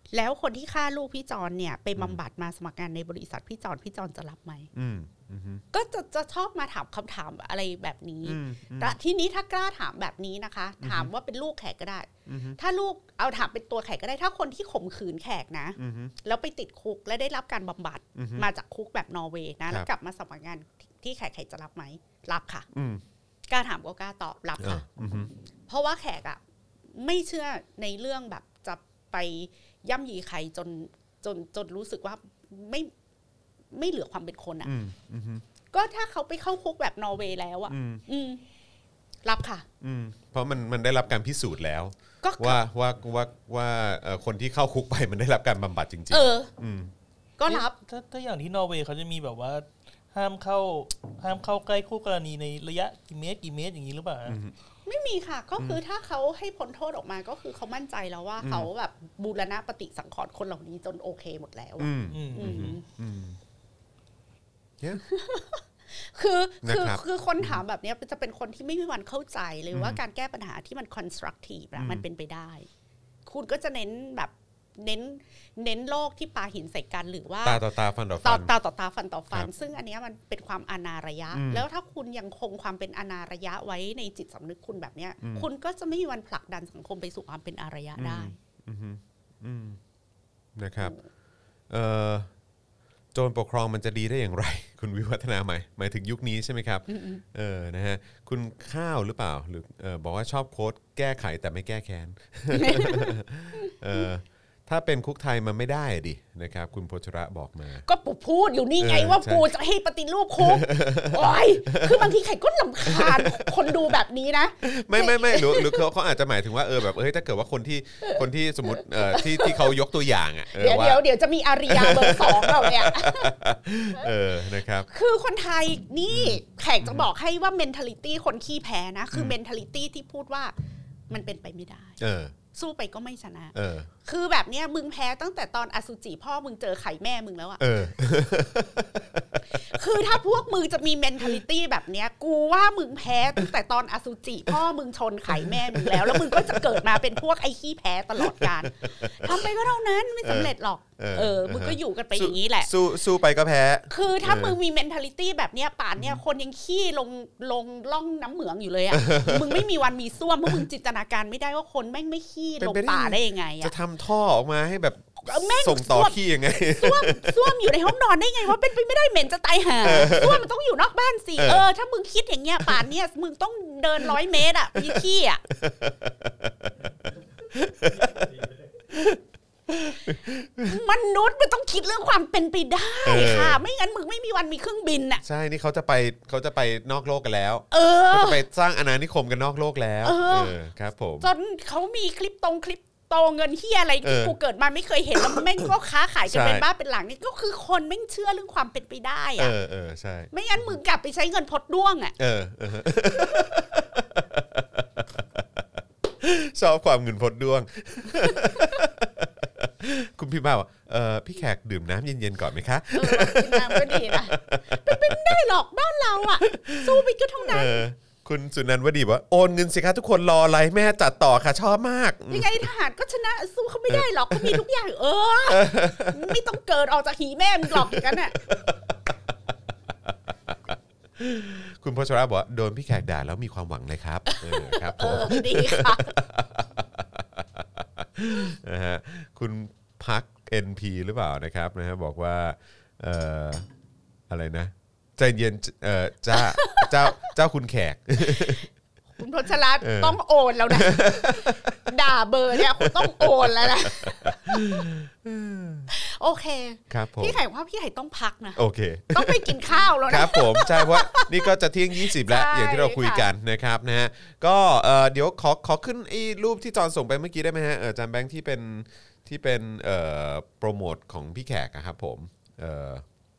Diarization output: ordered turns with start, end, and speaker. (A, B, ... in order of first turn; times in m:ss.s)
0:00.1-0:04.7 A
0:04.7-0:05.6 B
0:05.7-0:22.7 A
0:08.2-0:09.0 B
0:10.8-0:11.1 B
0:12.3-0:12.6 B
0:15.8-0:16.1 B
0:18.2-0:18.5 B
0:22.7-0:23.0 B
0:23.5-0:24.9 A
0:24.6-0:25.3 B
0:25.7-0:26.4 A
0:26.9-0:32.9 A
0:33.7-0:34.7 A
0:34.6-0:35.4 B
0:35.7-0:38.4 A
0:37.7-0:38.0 B
0:39.2-0:39.7 A
0:39.8-0:46.9 B
0:42.2-0:42.6 A
0:46.1-0:46.5 A
0:47.4-0:47.8 A
0:47.5-0:54.4 C
0:54.3-0:54.6 B
0:54.9-1:02.8 A
0:58.4-0:58.7 B
1:01.8-1:03.4 B
1:02.1-1:02.8 C
1:05.0-1:12.7 A
1:06.6-1:07.6 B
1:09.7-1:10.0 B
1:11.8-1:12.0 B
1:13.3-1:17.6 A
1:17.4-1:18.5 B
1:18.2-1:28.4 A
1:21.3-1:21.7 B
1:25.2-1:25.5 B
1:28.0-1:29.8 B
1:30.6-1:31.0 B
1:31.7-1:32.3 B
1:33.1-1:47.9 B
1:36.9-1:37.2 A
1:42.5-1:44.1 A
1:47.8-1:55.9 A
1:48.8-1:49.5 B
1:50.4-1:52.2 B
1:52.9-1:53.9 B
1:54.6-2:01.0 B
1:58.0-1:59.8 A
2:00.5-2:03.4 A
2:01.7-2:04.9 B
2:04.9-2:10.5 A
2:06.1-2:07.1 B
2:11.1-2:12.0 A
2:12.0-2:12.4 B
2:12.5-2:17.7 A
2:13.6-2:13.9 B
2:17.6-2:19.4 B
2:19.5-2:32.7 A
2:25.3-2:27.2 B
2:28.2-2:29.5 B
2:30.2-2:34.6 B
2:33.9-2:43.7 A
2:38.9-2:39.7 B
2:42.6-2:47.9 B
2:45.2-2:55.4 A
2:49.8-2:50.5 B
2:51.4-2:51.7 B
2:52.6-2:52.9 B
2:54.7-3:00.8 B
3:00.7-3:05.2 A
3:03.0-3:03.6 B
3:05.2-3:11.3 B
3:07.7-3:08.4 A
3:10.0-3:10.6 A
3:11.2-3:19.6 A
3:14.0-3:14.4 B
3:15.2-3:15.7 B
3:16.3-3:16.6 B
3:19.4-3:20.8 B
3:20.3-3:22.2 A
3:22.2-3:35.4 B
3:23.1-3:23.5 A
3:28.2-3:28.8 A
3:32.9-3:37.8 A
3:36.4-3:42.7 B
3:42.3-3:48.4 A
3:43.9-3:44.6 B
3:45.5-3:46.4 B
3:47.7-3:49.3 B
3:49.9-4:03.7 B
3:54.3-3:56.2 A
4:04.3-4:08.7 B
4:06.3-4:07.3 A
4:08.2-4:08.7 A
4:09.2-4:14.9 A
4:09.8-4:11.9 B
4:12.5-4:15.9 B
4:15.9-4:18.6 A
4:16.9-4:17.4 B
4:18.6-4:33.0 B
4:19.1-4:23.3 A